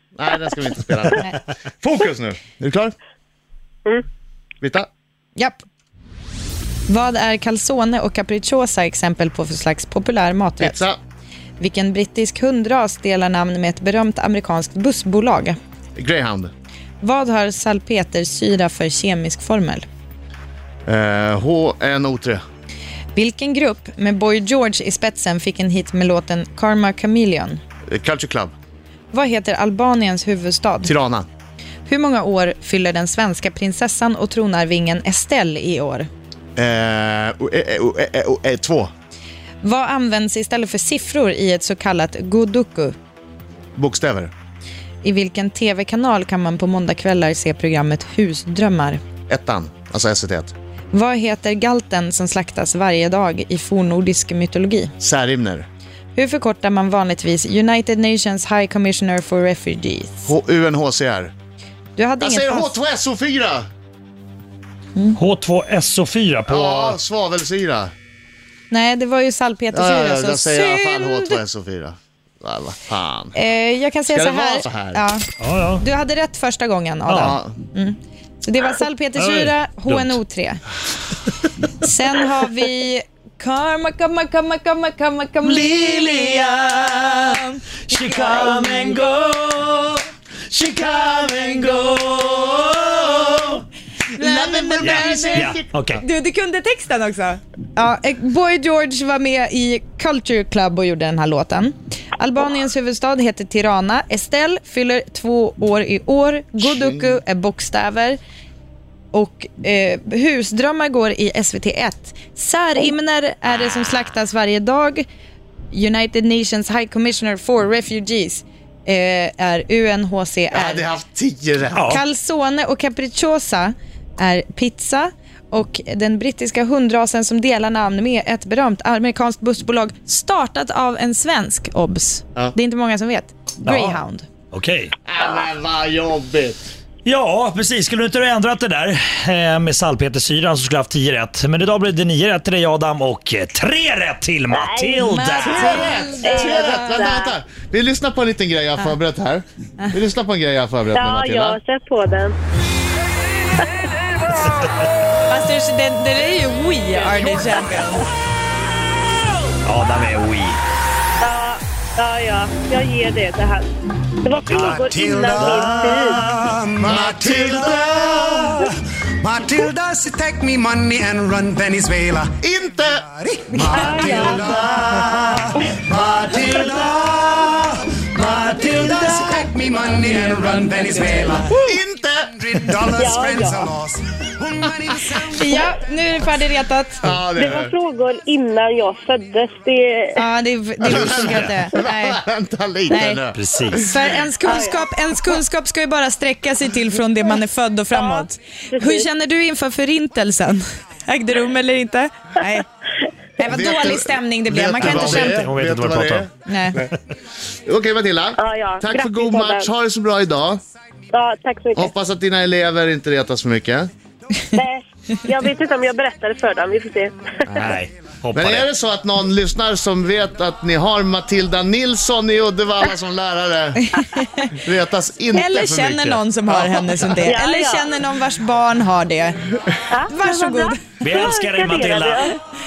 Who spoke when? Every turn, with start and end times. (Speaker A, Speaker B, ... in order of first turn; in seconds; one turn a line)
Speaker A: 0.1-1.3
Speaker A: 1.8-2.9
Speaker A: 4.6-4.9
Speaker B: 5.3-5.6
Speaker B: 6.9-10.8
Speaker A: 10.6-11.0
Speaker B: 11.6-15.6
Speaker A: 15.9-16.5
Speaker B: 17.0-19.9
Speaker A: 20.9-22.4
Speaker B: 23.1-27.6
Speaker A: 27.9-28.5
Speaker B: 29.1-30.9
Speaker A: 30.8-31.3
Speaker B: 31.9-36.1
Speaker A: 36.6-38.9
Speaker B: 39.6-43.0
Speaker A: 43.8-44.3
Speaker B: 45.0-49.0
Speaker A: 49.3-50.5
Speaker B: 50.9-54.9
Speaker A: 55.0-55.7
Speaker B: 56.1-60.3
Speaker A: 60.2-61.3
Speaker B: 62.0-62.8
Speaker A: 62.2-63.7
Speaker C: 65.1-67.0
Speaker A: 66.5-67.9
Speaker B: 68.7-71.4
Speaker A: 69.7-73.3
Speaker B: 73.3-75.2
Speaker A: 74.1-75.0
Speaker C: 75.4-75.8
Speaker B: 75.8-80.6
Speaker C: 77.1-77.3
Speaker A: 77.2-77.5
Speaker C: 79.2-80.2
Speaker B: 81.8-86.5
Speaker C: 85.4-89.9
Speaker B: 87.2-89.0
Speaker C: 90.5-93.6
Speaker B: 94.2-108.2
Speaker A: 94.2-95.7
Speaker C: 94.8-96.0
Speaker B: 109.1-115.0
Speaker B: 115.7-120.9
Speaker A: 120.5-121.9
Speaker C: 121.8-122.0
Speaker B: 121.9-134.3
Speaker C: 133.7-134.0
Speaker C: 134.5-134.9
Speaker A: 135.1-136.7
Speaker C: 137.0-145.7
Speaker D: 144.5-147.3
Speaker B: 145.0-147.0
Speaker A: 145.4-151.6
Speaker D: 150.9-152.3
Speaker B: 155.3-158.0
Speaker C: 159.7-160.6
Speaker D: 161.2-163.7
Speaker D: 164.2-166.2
Speaker E: 164.4-165.7
Speaker C: 165.3-166.5
Speaker E: 166.2-181.6
Speaker A: 166.8-168.5
Speaker A: 172.4-174.4
Speaker D: 173.7-174.5
Speaker C: 174.4-175.5
Speaker A: 175.8-176.5
Speaker C: 178.5-179.2
Speaker A: 181.6-182.4
Speaker E: 182.3-185.8
Speaker D: 182.9-183.7
Speaker B: 185.3-187.1
Speaker A: 187.0-187.7
Speaker D: 187.3-190.2
Speaker B: 190.2-192.2
Speaker A: 190.8-193.9
Speaker C: 191.3-191.5
Speaker B: 192.9-202.7
Speaker C: 193.3-193.8
Speaker D: 194.4-194.8
Speaker D: 197.9-199.1
Speaker B: 203.4-205.4
Speaker A: 203.4-206.9
Speaker C: 204.8-206.3
Speaker B: 206.4-206.8
Speaker A: 207.6-210.6
Speaker D: 208.4-209.7
Speaker D: 211.1-211.9
Speaker A: 211.8-213.9
Speaker D: 214.5-217.6
Speaker A: 217.4-217.8
Speaker C: 217.6-218.7
Speaker A: 218.3-223.9
Speaker B: 223.9-224.5
Speaker A: 224.5-227.2
Speaker B: 225.3-229.4
Speaker D: 227.2-227.9
Speaker D: 229.9-232.3
Speaker B: 230.1-230.8
Speaker C: 231.0-232.3